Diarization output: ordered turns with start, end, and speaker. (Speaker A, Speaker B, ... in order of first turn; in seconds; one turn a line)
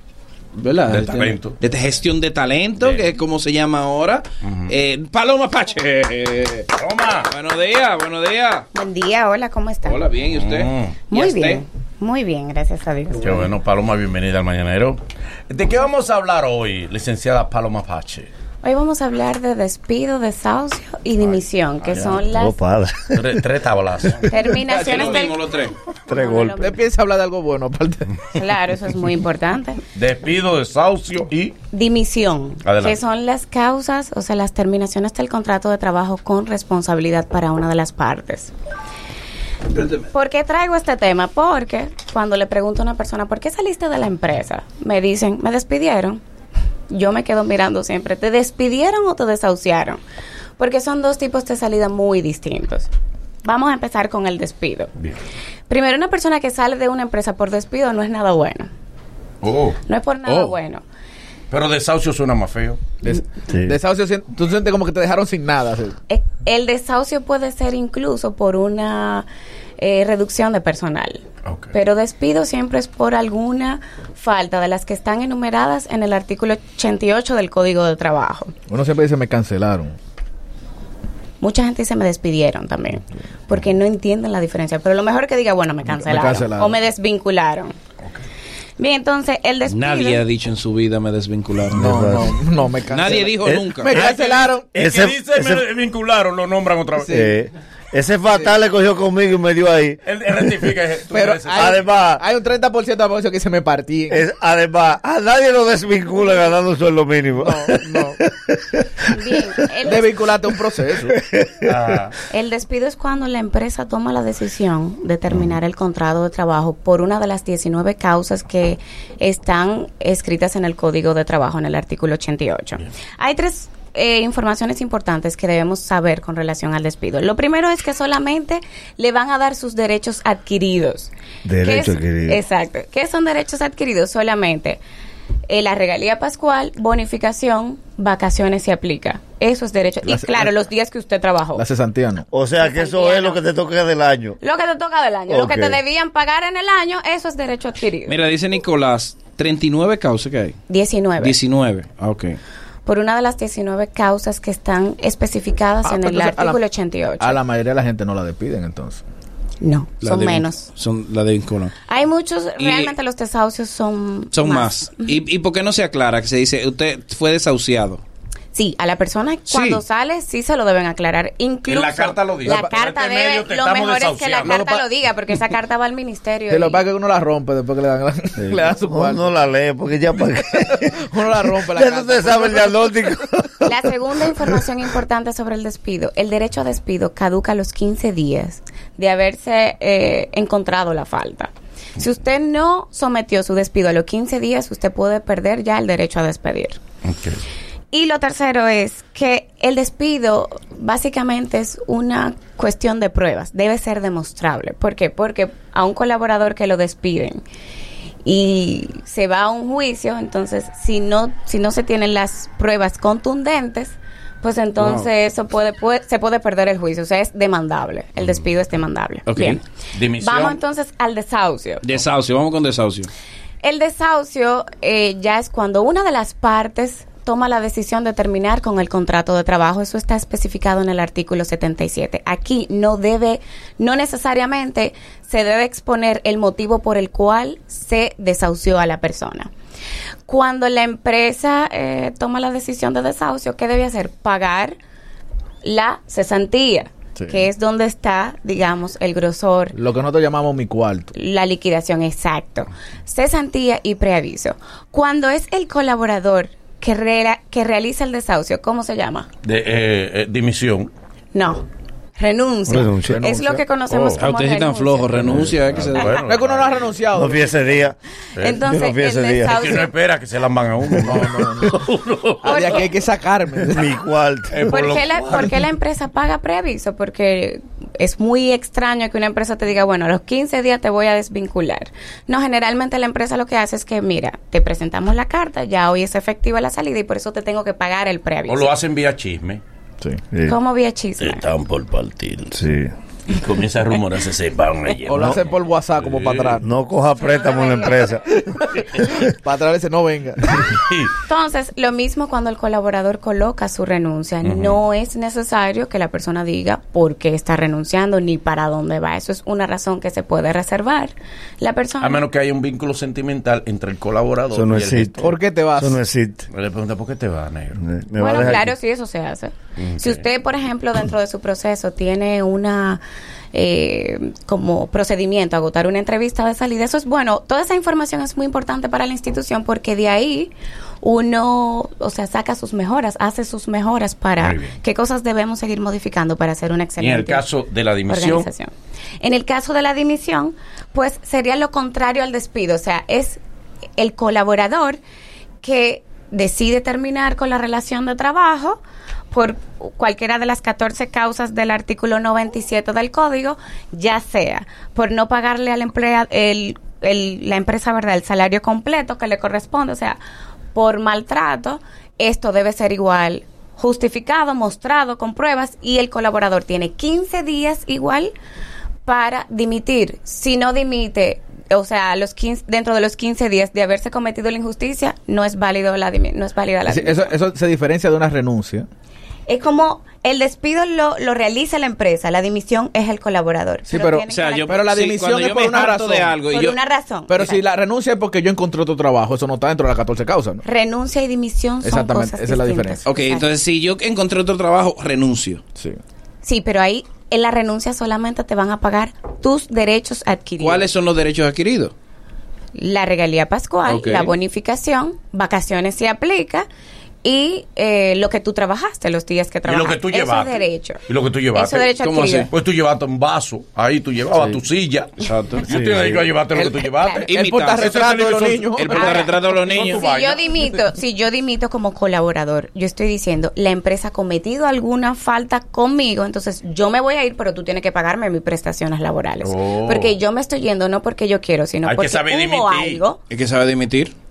Speaker A: 0.5-6.7
Speaker B: 0.9-1.6
Speaker B: 4.4-4.7
Speaker B: 6.7-7.3
Speaker A: 7.2-8.7
Speaker C: 8.7-10.0
Speaker A: 9.8-11.6
Speaker B: 10.3-11.0
Speaker C: 11.1-13.5
Speaker B: 13.2-18.3
Speaker C: 18.6-22.6
Speaker B: 21.8-22.2
Speaker D: 22.2-23.3
Speaker B: 23.1-25.1
Speaker C: 24.3-25.4
Speaker A: 24.6-25.8
Speaker D: 26.1-26.7
Speaker C: 26.1-26.9
Speaker E: 26.6-28.3
Speaker C: 28.3-29.8
Speaker B: 29.9-31.6
Speaker C: 31.7-38.5
Speaker B: 32.6-33.0
Speaker C: 40.0-46.2
Speaker C: 46.9-50.0
Speaker C: 50.6-52.9
Speaker C: 53.4-54.9
Speaker C: 55.7-58.7
Speaker B: 59.4-59.8
Speaker C: 59.8-60.8
Speaker A: 60.2-60.5
Speaker B: 61.5-62.8
Speaker E: 63.0-66.0
Speaker D: 63.5-63.7
Speaker C: 66.1-69.3
Speaker C: 69.8-71.2
Speaker B: 71.4-71.7
Speaker C: 71.7-78.5
Speaker E: 78.7-79.9
Speaker C: 81.4-87.7
Speaker E: 85.9-86.8
Speaker C: 88.8-90.2
Speaker A: 89.7-92.0
Speaker D: 91.7-92.3
Speaker E: 91.7-94.7
Speaker A: 92.9-94.0
Speaker B: 93.9-97.2
Speaker D: 94.7-95.6
Speaker E: 97.0-97.3
Speaker D: 97.1-100.0
Speaker E: 98.3-98.5
Speaker B: 100.0-101.8
Speaker E: 101.1-104.2
Speaker D: 101.5-102.2
Speaker D: 104.1-109.5
Speaker E: 107.4-108.2
Speaker C: 109.1-110.2
Speaker E: 109.8-111.2
Speaker D: 111.1-111.7
Speaker B: 111.6-112.2
Speaker C: 112.2-134.8
Speaker D: 131.4-132.4
Speaker C: 135.5-141.6
Speaker E: 140.0-140.5
Speaker E: 141.5-142.3
Speaker D: 142.3-144.4
Speaker C: 142.6-143.4
Speaker C: 144.4-148.1
Speaker D: 145.3-145.8
Speaker A: 148.1-150.6
Speaker C: 150.7-151.4
Speaker A: 151.2-152.4
Speaker C: 152.8-157.4
Speaker E: 155.8-156.6
Speaker E: 157.2-159.0
Speaker C: 159.6-160.7
Speaker A: 160.0-161.7
Speaker C: 161.8-165.2
Speaker A: 162.6-162.9
Speaker A: 164.3-168.0
Speaker C: 168.5-176.8
Speaker A: 169.5-169.8
Speaker B: 171.7-174.6
Speaker E: 172.5-172.7
Speaker E: 174.4-174.9
Speaker E: 176.5-179.3
Speaker D: 178.4-183.7
Speaker E: 180.6-183.0
Speaker C: 183.6-196.8
Speaker B: 197.0-197.4
Speaker C: 197.9-207.4
Speaker C: 208.2-219.6
Speaker A: 214.8-215.1
Speaker A: 219.2-219.6
Speaker B: 219.9-220.6
Speaker C: 220.1-221.8
Speaker A: 221.8-223.1
Speaker C: 223.6-239.5
Speaker C: 240.3-244.7
Speaker C: 245.6-249.7
Speaker E: 247.2-247.4
Speaker E: 249.7-251.1
Speaker C: 251.1-259.3
Speaker B: 259.4-260.9
Speaker C: 261.3-261.6
Speaker C: 262.2-265.2
Speaker D: 262.7-263.4
Speaker E: 263.1-263.6
Speaker B: 263.9-264.3
Speaker A: 264.1-266.2
Speaker B: 265.1-267.0
Speaker E: 266.2-267.6
Speaker D: 267.1-267.9
Speaker B: 268.4-268.6
Speaker C: 268.4-269.9
Speaker D: 268.6-269.7
Speaker B: 269.4-272.8
Speaker E: 271.0-271.8
Speaker E: 272.4-273.9
Speaker C: 272.4-273.0
Speaker D: 273.7-274.6
Speaker B: 274.5-275.6
Speaker C: 274.7-288.7
Speaker B: 288.5-289.6
Speaker D: 290.3-290.6
Speaker C: 290.4-291.5
Speaker B: 291.2-292.6
Speaker D: 292.5-292.9
Speaker B: 293.3-296.6
Speaker E: 295.0-296.7
Speaker D: 295.1-295.4
Speaker D: 296.6-298.3
Speaker C: 297.2-298.2
Speaker E: 298.5-300.6
Speaker B: 300.6-301.1
Speaker C: 301.2-312.2
Speaker B: 304.4-304.8
Speaker B: 312.0-315.3
Speaker D: 314.5-316.4
Speaker E: 315.2-316.0
Speaker B: 316.5-318.6
Speaker D: 317.8-318.7
Speaker C: 318.2-323.0
Speaker B: 319.8-320.2
Speaker C: 323.5-337.4
Speaker B: 334.4-334.7
Speaker B: 337.0-338.5
Speaker C: 338.1-343.4
Speaker C: 344.0-345.0
Speaker C: 345.6-348.8
Speaker C: 349.3-360.2
Speaker C: 360.7-368.3
Speaker C: 369.0-377.4
Speaker E: 376.9-378.9
Speaker C: 379.5-385.0
Speaker E: 383.9-386.4
Speaker A: 384.2-386.8
Speaker C: 386.4-387.6
Speaker E: 387.3-390.6
Speaker C: 390.6-393.5
Speaker E: 391.8-393.1
Speaker A: 393.0-395.6
Speaker C: 396.4-400.9
Speaker A: 400.6-401.9
Speaker C: 402.7-406.6
Speaker A: 403.8-404.3
Speaker C: 407.2-411.0
Speaker B: 409.6-420.6
Speaker C: 411.5-412.5
Speaker A: 412.2-412.5
Speaker A: 415.2-415.6
Speaker D: 415.6-416.2
Speaker E: 416.5-419.2
Speaker C: 416.8-417.3
Speaker A: 417.2-418.0
Speaker A: 418.7-420.1
Speaker C: 418.9-433.2
Speaker B: 429.4-430.1
Speaker B: 431.8-433.0
Speaker A: 433.3-434.1